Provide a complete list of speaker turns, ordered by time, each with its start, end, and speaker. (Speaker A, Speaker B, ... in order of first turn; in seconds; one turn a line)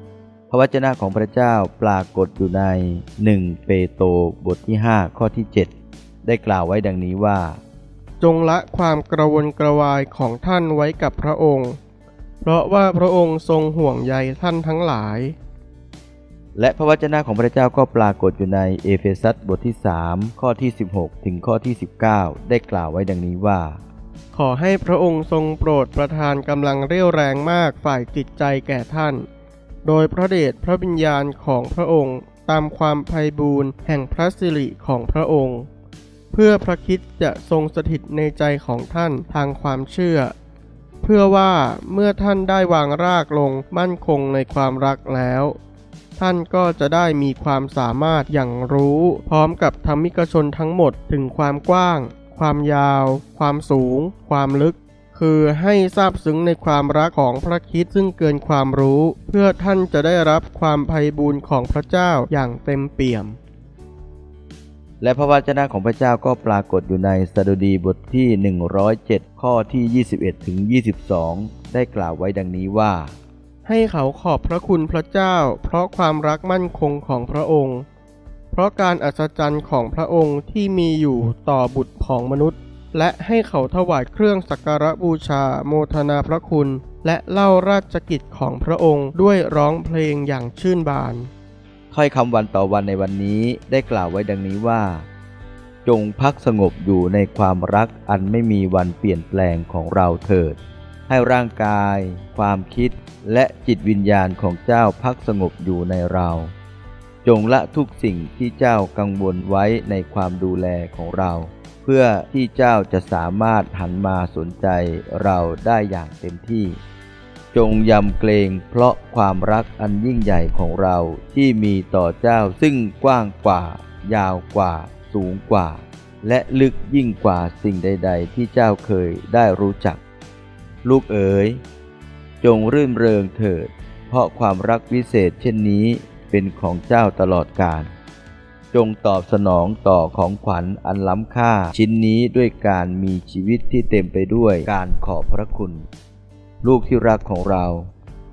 Speaker A: 0.5-5.7
Speaker A: 6.2-7.6
Speaker B: 8.2-11.8
Speaker B: 12.4-15.3
Speaker A: 16.6-23.8
Speaker B: 24.3-29.3
Speaker B: 29.9-35.7
Speaker B: 36.3-40.3
Speaker B: 41.0-45.6
Speaker B: 46.2-63.4
Speaker A: 65.0-73.2
Speaker B: 73.7-77.8
Speaker B: 78.5-91.3
Speaker A: 91.9-95.1
Speaker A: 95.8-106.5
Speaker A: 107.2-116.8
Speaker A: 117.5-130.0
Speaker A: 130.8-131.6
Speaker A: 132.4-137.9
Speaker A: 138.7-145.8
Speaker A: 146.6-147.9